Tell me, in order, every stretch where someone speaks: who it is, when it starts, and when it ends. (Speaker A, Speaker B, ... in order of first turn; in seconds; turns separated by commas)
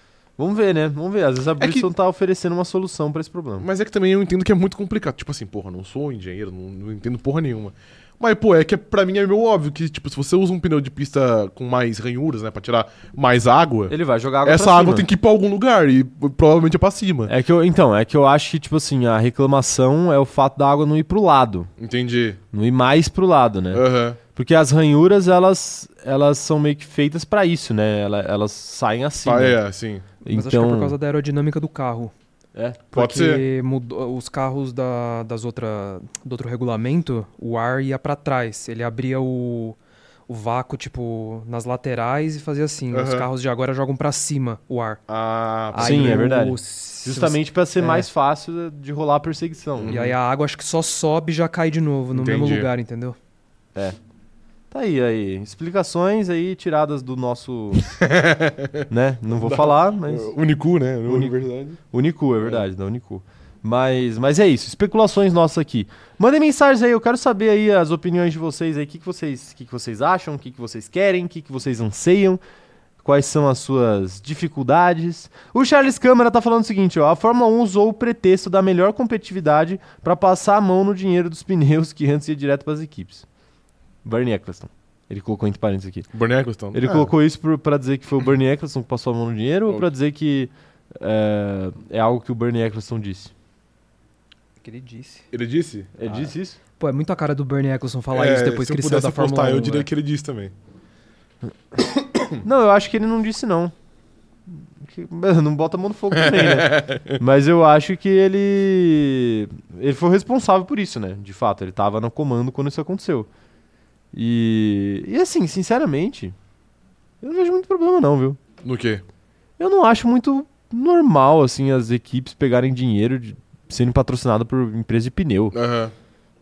Speaker A: 0.4-3.7, Speaker B: 1.6-1.9, Speaker B: 3.6-17.3, Speaker A: 13.9-15.1, Speaker A: 17.3-21.7, Speaker B: 21.8-22.4, Speaker A: 22.5-29.6, Speaker B: 23.7-24.2, Speaker B: 29.2-30.1, Speaker A: 30.3-30.9, Speaker C: 30.3-32.1, Speaker A: 32.5-32.9, Speaker B: 32.9-33.4, Speaker C: 32.9-39.8, Speaker C: 40.3-45.0, Speaker B: 42.9-43.3, Speaker B: 45.1-46.3, Speaker C: 45.7-48.1, Speaker A: 45.8-50.0, Speaker B: 49.8-50.1, Speaker C: 49.9-53.1, Speaker B: 52.1-52.7, Speaker A: 54.7-57.9, Speaker B: 57.8-61.8, Speaker A: 58.9-60.3, Speaker A: 61.1-61.3, Speaker A: 61.9-72.4, Speaker A: 73.0-83.2, Speaker A: 84.0-86.1, Speaker B: 86.1-87.1, Speaker A: 86.7-93.3, Speaker C: 94.6-95.2, Speaker B: 95.3-96.2, Speaker A: 96.0-96.6, Speaker C: 96.8-99.9, Speaker B: 98.1-100.5, Speaker B: 101.8-102.4, Speaker A: 102.4-103.7, Speaker A: 104.8-113.3, Speaker B: 106.1-107.2, Speaker A: 114.1-116.4, Speaker A: 117.2-118.4, Speaker B: 118.6-119.0, Speaker A: 119.6-125.5, Speaker B: 125.5-125.9